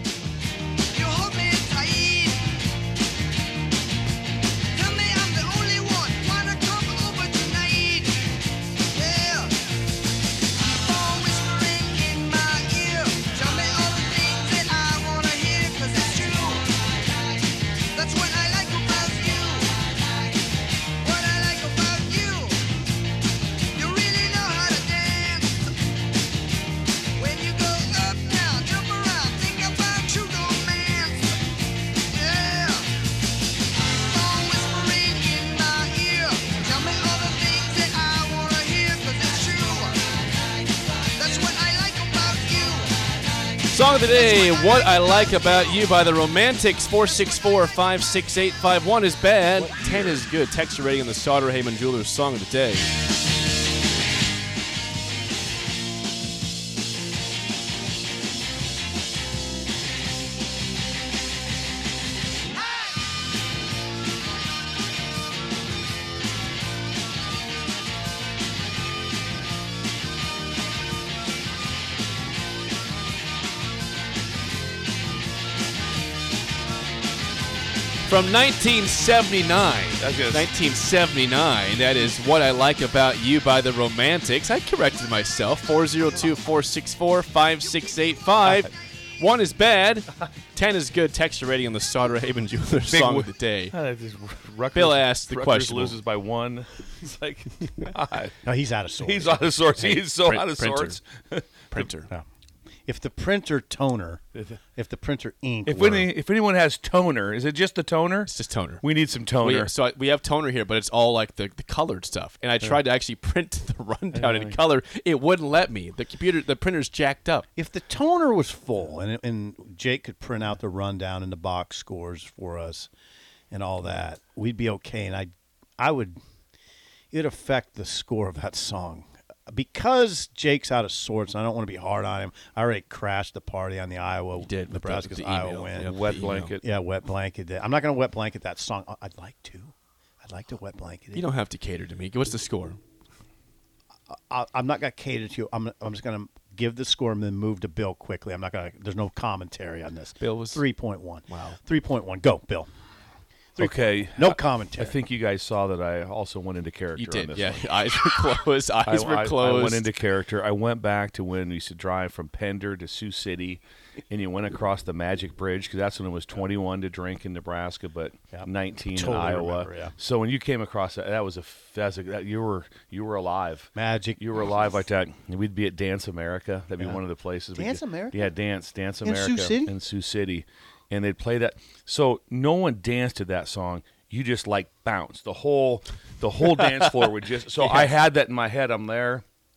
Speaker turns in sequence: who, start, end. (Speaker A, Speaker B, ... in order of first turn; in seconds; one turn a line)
Speaker A: 0.9-2.7
Speaker A: 4.7-9.8
Speaker A: 10.5-20.4
Speaker A: 21.0-22.8
Speaker A: 23.7-25.8
Speaker A: 27.1-33.1
Speaker A: 33.8-40.3
Speaker A: 41.1-45.8
Speaker B: 43.7-52.9
Speaker C: 49.5-50.2
Speaker B: 78.0-93.8
Speaker D: 80.0-80.5
Speaker D: 88.4-88.7
Speaker D: 92.8-98.4
Speaker B: 94.8-96.0
Speaker C: 98.4-99.4
Speaker D: 99.0-101.9
Speaker B: 99.8-101.0
Speaker B: 101.7-102.1
Speaker C: 101.9-102.2
Speaker C: 102.9-104.2
Speaker C: 104.8-106.1
Speaker D: 105.7-109.7
Speaker B: 108.3-108.8
Speaker B: 109.4-117.5
Speaker D: 114.1-114.6
Speaker C: 117.6-122.9
Speaker C: 123.5-126.2
Speaker C: 127.1-136.0
Speaker B: 134.4-136.5
Speaker D: 135.8-136.6
Speaker C: 136.6-141.3
Speaker B: 141.2-142.8
Speaker C: 144.1-152.7
Speaker B: 150.2-150.6
Speaker B: 151.3-151.6
Speaker C: 153.6-154.9
Speaker D: 153.6-158.0
Speaker B: 157.1-159.8
Speaker D: 158.8-189.2
Speaker C: 168.3-169.9
Speaker C: 173.8-174.2
Speaker C: 177.6-178.3
Speaker C: 179.0-179.7